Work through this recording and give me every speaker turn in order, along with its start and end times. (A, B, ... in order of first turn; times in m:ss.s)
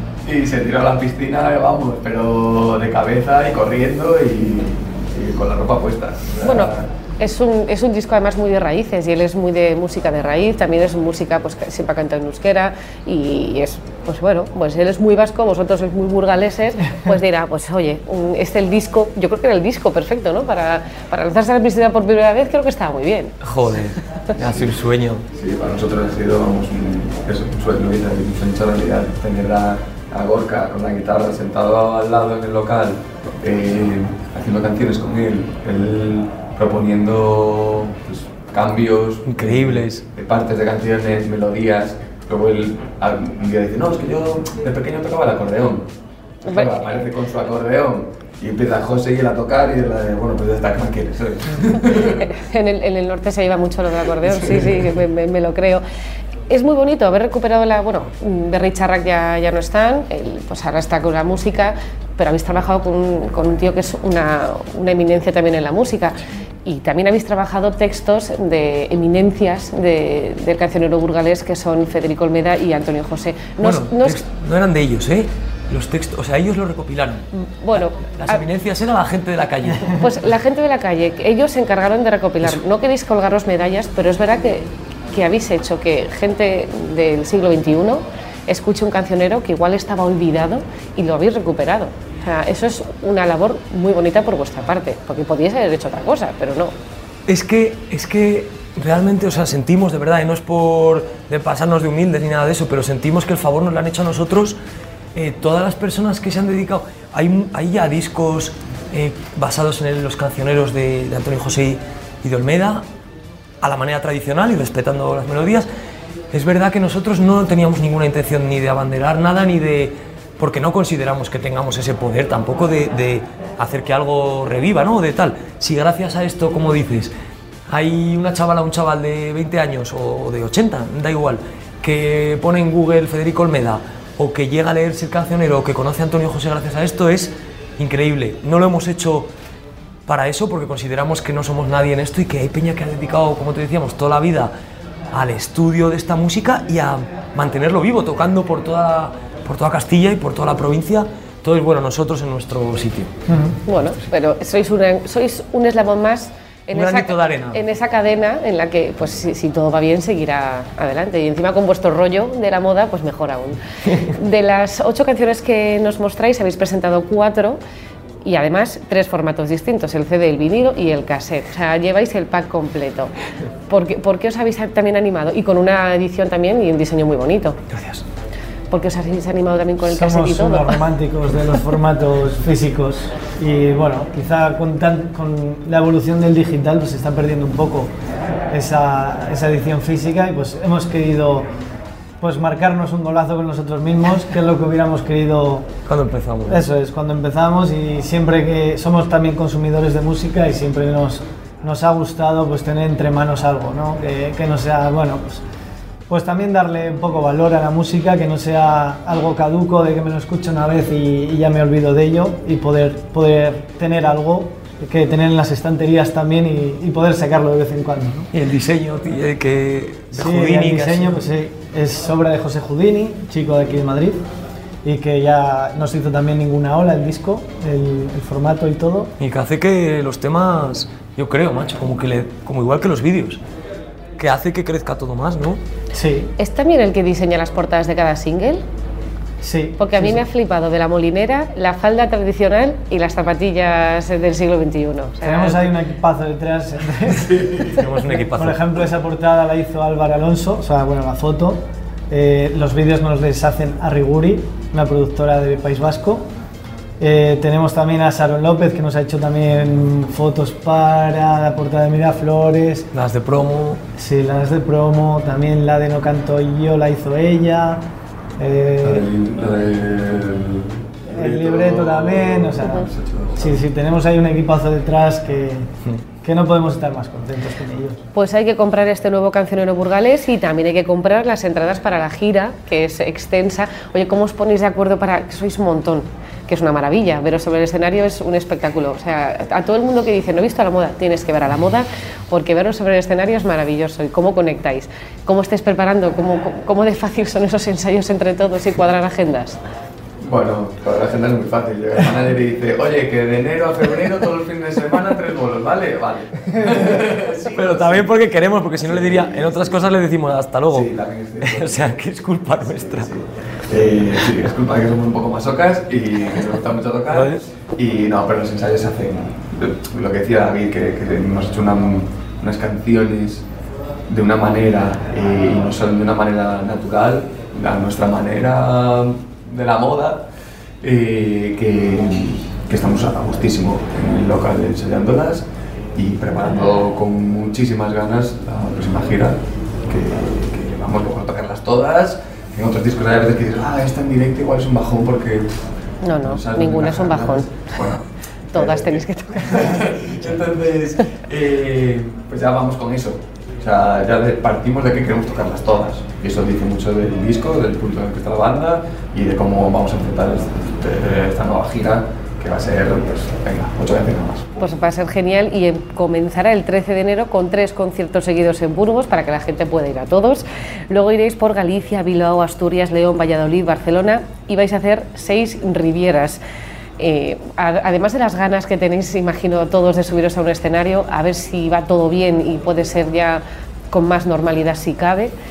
0:00.2-0:06.9 A
0:06.4-0:23.4 B
0:23.4-0:25.3 C
0:25.3-0:45.9 A
0:39.2-0:40.0 C
0:46.4-0:52.2 A
0:46.4-0:46.7 B
0:52.1-0:55.8 B
0:54.2-0:54.9 A
0:56.5-1:14.2 B
1:13.6-1:20.0 C
1:17.3-1:18.4 B
1:19.9-1:36.7 B
1:37.3-1:44.6 C
1:45.1-1:52.8 C
1:53.6-1:55.7 C
1:56.3-2:07.1 C
2:07.7-2:19.3 C
2:20.1-2:24.5 C
2:25.1-2:33.1 C
2:33.3-2:33.6 D
2:33.7-2:47.6 B
2:36.7-2:37.6 C
2:48.2-2:53.1 B
2:53.7-2:57.6 B
2:57.7-2:58.0 C
2:58.7-3:00.8 B
2:59.8-3:07.9 D
3:08.5-3:11.5 D
3:12.2-3:15.7 D
3:15.8-3:16.6 C
3:16.5-3:25.4 D
3:26.1-3:38.3 D
3:38.3-3:41.2 C
3:40.1-3:44.2 D
3:44.8-3:49.1 D
3:49.2-3:53.4 C
3:54.2-3:55.6 C
3:55.9-3:56.3 D
3:56.4-3:58.6 B
3:59.4-4:00.2 D
3:59.8-4:05.7 B
4:05.2-4:16.2 D
4:07.3-4:07.6 A
4:07.7-4:08.6 C
4:17.0-4:22.9 D
4:22.9-4:23.8 C
4:24.0-4:27.8 D
4:28.4-4:29.0 D
4:28.8-4:33.6 A
4:31.1-4:32.9 D
4:32.6-4:32.8 B
4:33.4-4:35.7 D
4:36.2-4:38.0 D
4:38.1-4:59.6 B
5:00.2-5:08.1 A
5:07.5-5:13.1 C
5:08.8-5:09.8 A
5:10.7-5:12.0 A
5:12.7-5:23.4 A
5:17.1-5:17.4 C
5:24.1-5:30.2 A
5:30.8-5:45.5 A
5:46.0-5:47.7 B
5:46.2-5:49.0 A
5:48.5-5:50.1 B
5:49.5-6:04.8 A
6:04.6-6:16.4 B
6:17.0-6:25.3 B